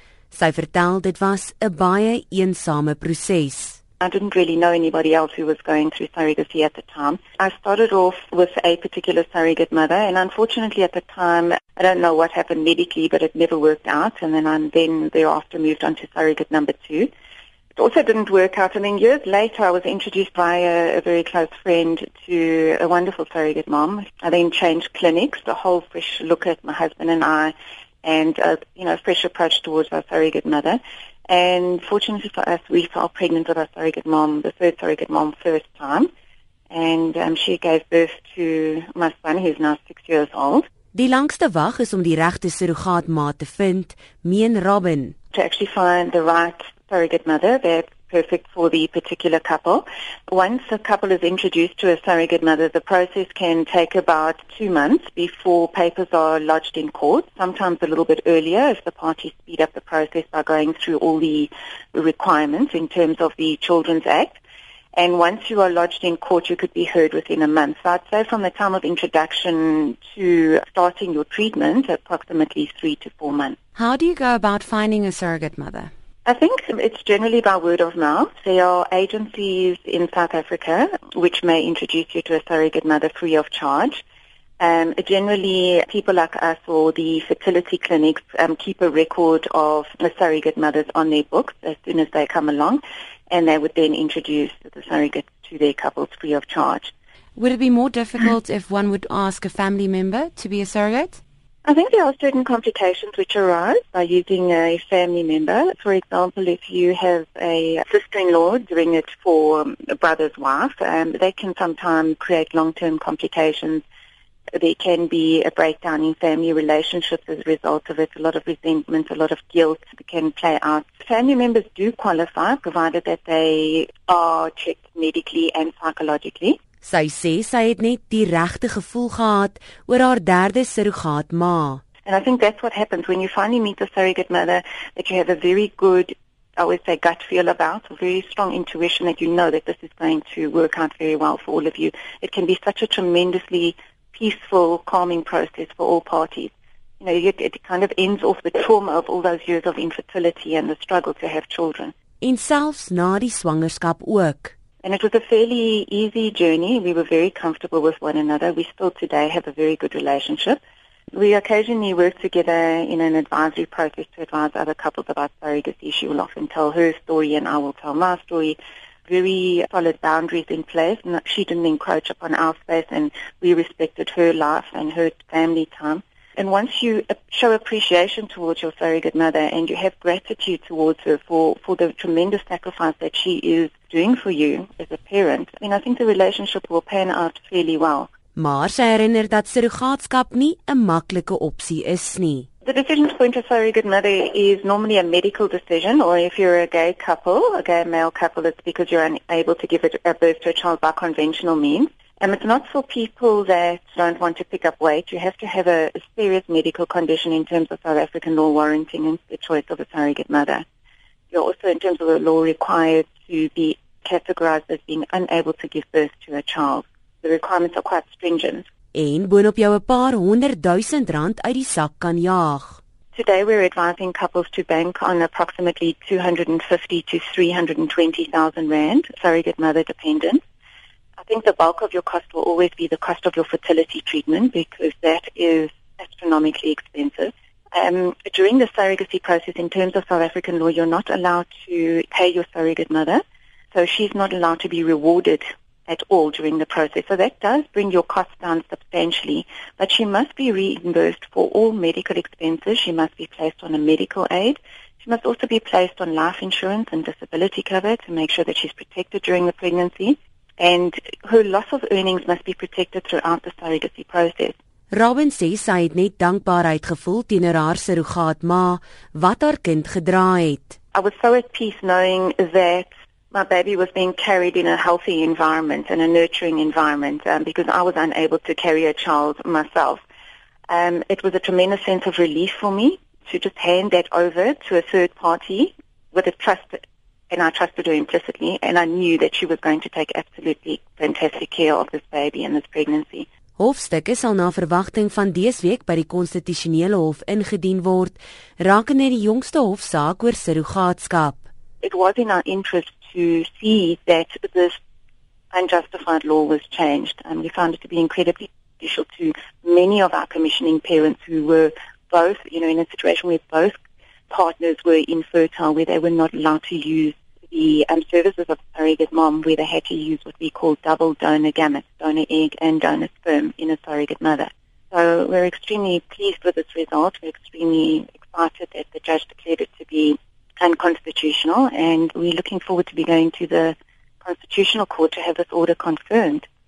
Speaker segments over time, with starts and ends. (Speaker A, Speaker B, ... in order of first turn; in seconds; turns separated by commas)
Speaker A: 0.3-3.8, Speaker B: 4.0-17.1, Speaker B: 17.8-36.1, Speaker B: 36.7-40.7, Speaker A: 40.9-45.1, Speaker B: 45.3-64.4, Speaker B: 65.0-73.6, Speaker A: 73.8-75.9, Speaker B: 76.2-84.0, Speaker B: 84.6-96.9, Speaker A: 97.4-101.2, Speaker B: 101.6-113.8, Speaker B: 114.5-126.6, Speaker A: 126.8-131.8, Speaker B: 132.1-151.9, Speaker A: 152.2-154.5, Speaker B: 154.8-160.6, Speaker B: 161.1-188.1, Speaker A: 188.3-192.5, Speaker B: 192.7-210.7, Speaker B: 211.3-218.7, Speaker A: 218.9-222.8, Speaker B: 223.1-230.4, Speaker B: 231.2-243.2, Speaker B: 243.7-264.6, Speaker A: 264.9-270.8, Speaker B: 270.9-280.0, Speaker B: 280.7-293.3, Speaker A: 293.6-301.4, Speaker B: 301.8-304.8, Speaker B: 305.5-313.8, Speaker B: 314.3-336.4